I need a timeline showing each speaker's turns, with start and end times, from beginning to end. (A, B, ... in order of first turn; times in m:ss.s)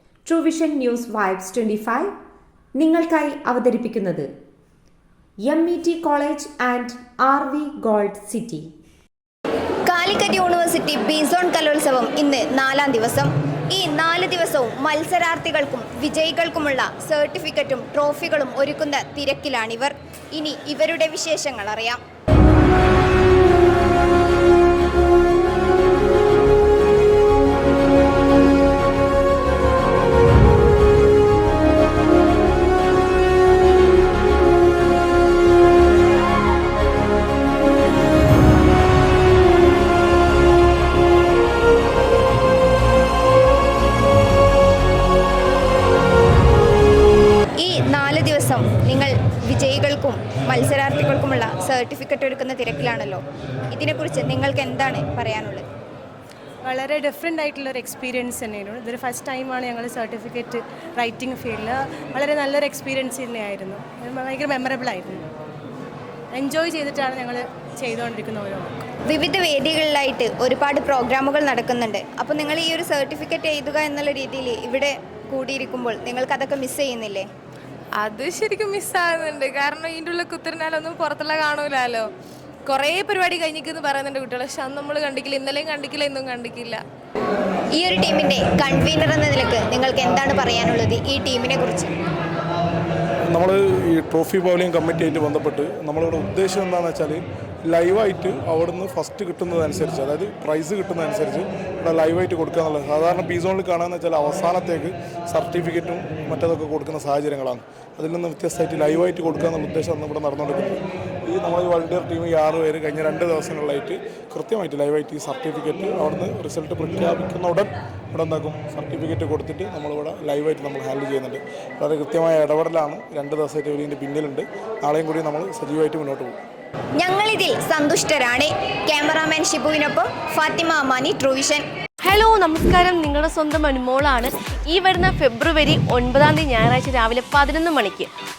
0:00.2-0:02.1 A
0:02.8-0:04.3 A
0:05.4-0:08.7 A
0:09.9-0:22.0 B
0:47.6-0:55.6 B
0:56.6-1:05.2 C
1:06.3-1:08.8 C
1:09.1-1:17.3 B
1:18.0-1:22.1 D
1:22.6-1:26.8 D
1:27.8-1:31.9 B
1:33.3-2:06.4 E
2:07.0-2:11.6 B
2:12.0-2:18.1 F